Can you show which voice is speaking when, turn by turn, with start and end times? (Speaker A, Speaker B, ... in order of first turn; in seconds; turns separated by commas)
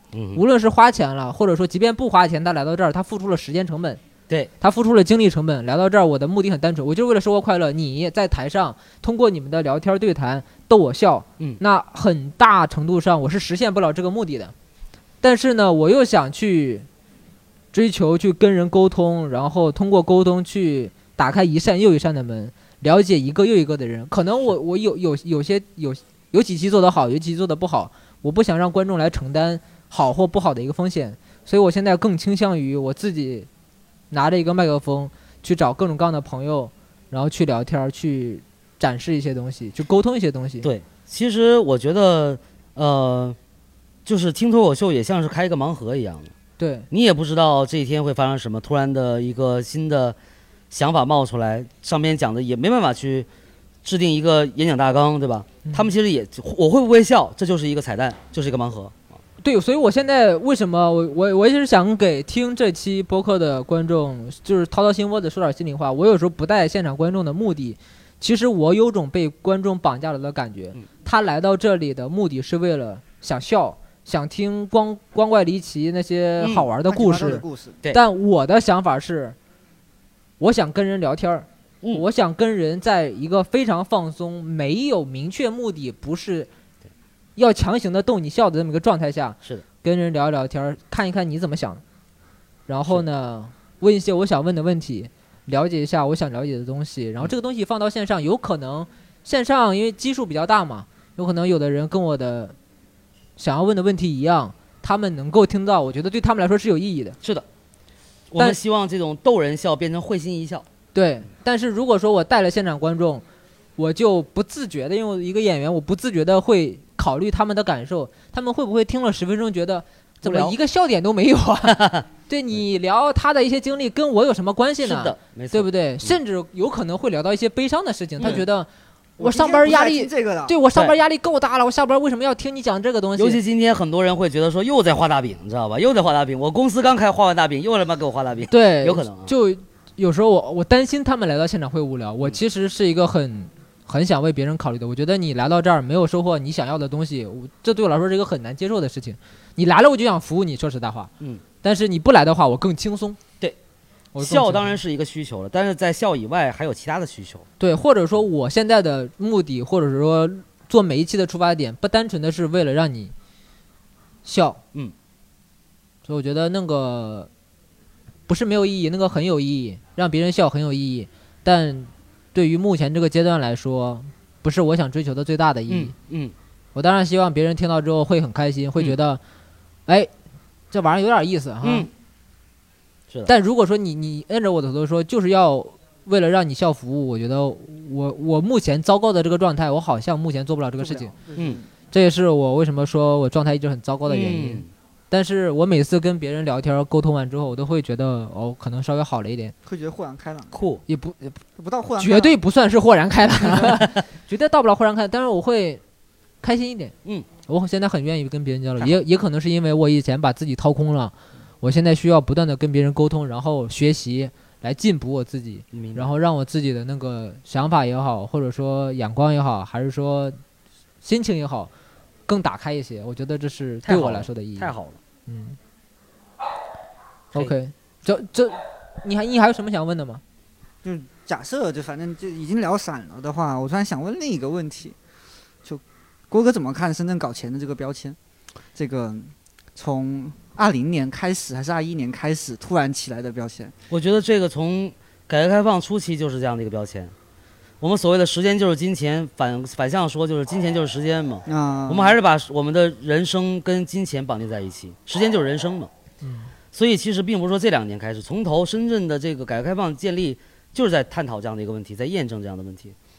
Speaker A: 0.1-0.4, Speaker B: 0.3-4.0, Speaker B: 4.6-14.5, Speaker B: 15.2-16.9, Speaker B: 17.7-33.5, Speaker B: 34.1-40.7, Speaker A: 40.6-43.4, Speaker A: 44.1-46.3, Speaker B: 46.6-46.9, Speaker A: 46.9-50.2, Speaker A: 50.7-53.3, Speaker A: 53.8-59.0, Speaker B: 55.6-55.9, Speaker B: 59.4-79.4, Speaker A: 76.4-76.7, Speaker C: 76.9-77.8, Speaker B: 80.4-86.5, Speaker B: 87.4-91.8, Speaker B: 92.7-102.5, Speaker B: 103.4-107.2, Speaker A: 108.3-110.7, Speaker B: 111.0-113.2, Speaker B: 113.8-133.4, Speaker A: 120.2-120.6, Speaker A: 121.7-122.0, Speaker A: 124.8-126.2, Speaker C: 129.2-130.6, Speaker A: 133.2-139.3, Speaker B: 138.5-151.1, Speaker B: 151.6-153.2, Speaker B: 154.2-154.8, Speaker A: 154.2-157.5, Speaker B: 157.6-163.1, Speaker B: 164.2-164.6, Speaker B: 166.1-167.3, Speaker B: 168.3-175.9, Speaker A: 175.7-176.3, Speaker B: 176.8-179.2, Speaker B: 180.7-181.9, Speaker A: 181.6-181.9, Speaker B: 183.3-191.1, Speaker C: 190.8-191.6, Speaker B: 191.9-199.5, Speaker A: 194.1-194.7, Speaker C: 199.7-200.5, Speaker A: 200.5-200.8, Speaker B: 200.9-201.4, Speaker C: 201.6-202.4, Speaker B: 202.0-205.8, Speaker B: 206.4-206.9, Speaker B: 207.5-220.4, Speaker A: 215.7-216.1, Speaker B: 221.0-221.7, Speaker B: 222.3-224.7, Speaker A: 223.9-225.0, Speaker B: 225.3-225.6, Speaker B: 227.3-230.2, Speaker C: 230.8-235.0, Speaker C: 235.6-238.2, Speaker C: 238.7-243.7, Speaker A: 243.9-247.1, Speaker A: 247.8-255.9, Speaker C: 251.5-252.2, Speaker B: 256.2-256.5, Speaker A: 256.7-262.9